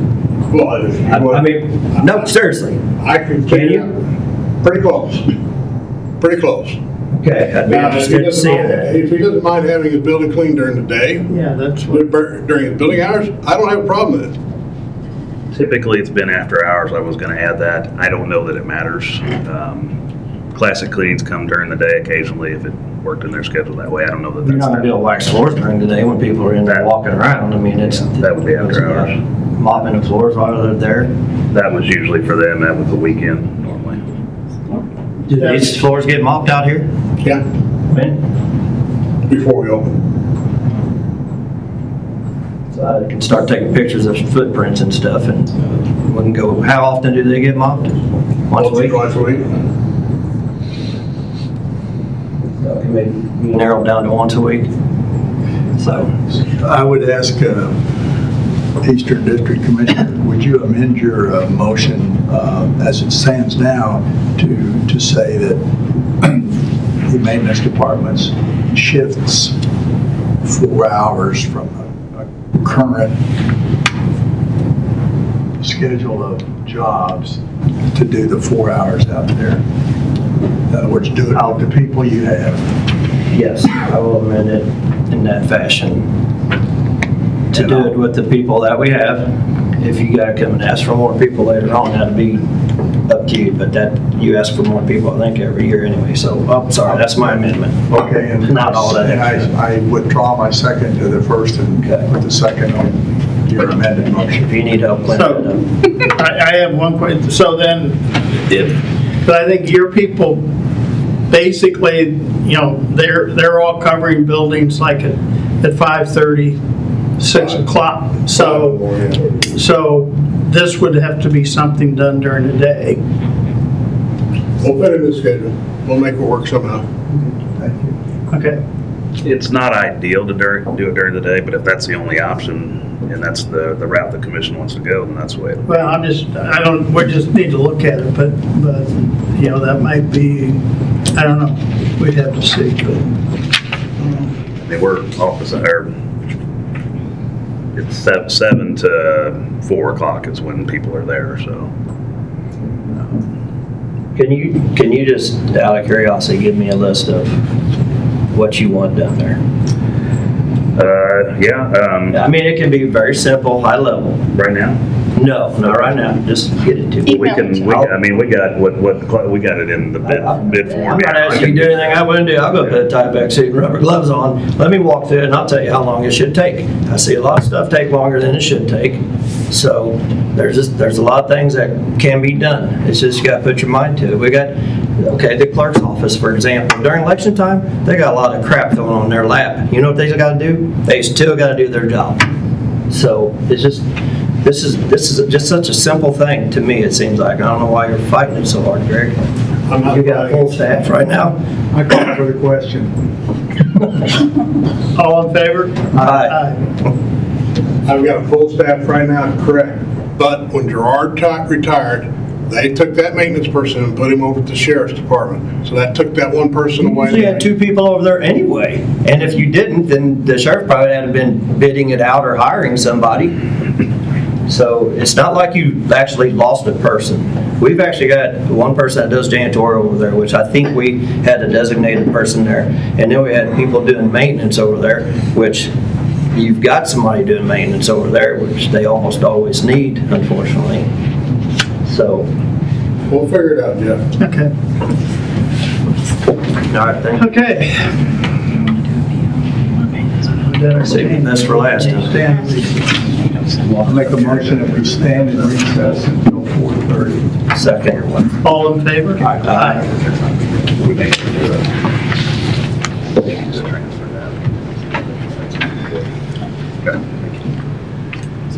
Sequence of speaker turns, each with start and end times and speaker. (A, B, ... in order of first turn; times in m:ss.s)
0:00.5-0:02.2 A
0:01.1-0:02.8 B
0:03.0-0:04.0 A
0:03.5-0:03.9 B
0:04.6-0:05.3 A
0:06.2-0:06.8 A
0:07.1-0:08.9 B
0:07.7-0:11.3 A
0:11.3-0:12.1 C
0:11.9-0:14.3 A
0:15.5-0:20.0 D
0:20.5-0:24.9 D
0:24.4-0:31.1 B
0:27.8-0:29.2 D
0:31.5-0:34.0 D
0:35.3-0:36.9 B
0:35.3-0:35.7 C
0:37.9-0:38.2 B
0:39.3-0:40.0 A
0:42.7-0:48.0 B
0:48.5-0:49.1 B
0:48.5-0:49.5 A
0:52.5-0:54.7 B
0:55.8-0:56.1 B
0:56.3-0:57.7 E
0:58.8-1:05.6 E
1:06.2-1:09.5 E
1:10.4-1:13.2 E
1:15.6-1:17.4 E
1:17.9-1:19.6 E
1:20.7-1:22.6 E
1:23.3-1:26.1 B
1:27.5-1:32.5 B
1:27.5-1:27.9 E
1:33.1-1:39.5 B
1:37.9-1:44.5 E
1:41.8-1:42.1 B
1:44.4-1:45.7 B
1:45.1-1:50.4 C
1:51.3-1:56.6 C
1:57.2-2:03.0 C
1:57.3-1:57.6 A
1:58.2-1:59.2 A
2:04.6-2:06.8 A
2:07.1-2:08.0 E
2:08.3-2:08.6 C
2:09.2-2:16.0 D
2:15.6-2:20.6 C
2:21.1-2:23.1 C
2:24.6-2:25.9 D
2:27.7-2:31.7 D
2:34.1-2:37.4 B
2:38.3-2:39.4 B
2:40.7-2:42.2 D
2:42.1-2:44.3 B
2:44.3-2:44.8 D
2:45.1-2:47.9 B
2:47.1-2:52.7 D
2:50.0-3:12.2 B
3:12.9-3:13.8 B
3:14.4-3:19.2 B
3:19.7-3:20.6 A
3:19.8-3:21.4 B
3:21.7-3:23.0 E
3:24.9-3:26.6 C
3:25.9-3:26.4 B
3:27.8-3:37.5 A
3:36.8-3:43.4 B
3:44.5-3:55.7 B
3:56.3-4:00.8 B
4:01.8-4:02.3 B
4:03.1-4:04.0 A
4:04.2-4:04.5 C
4:06.7-4:07.3 B
4:07.1-4:08.7 C
4:10.2-4:12.3 C
4:10.8-4:12.2 B
4:12.0-4:13.0 E
4:13.6-4:14.6 D
4:13.8-4:17.3 E
4:17.5-4:18.4 B
4:18.4-4:19.9 C
4:19.2-4:19.6 E
4:19.4-4:19.9 B
4:20.7-4:21.6 D
4:23.1-4:26.0 D
4:26.8-4:27.1 D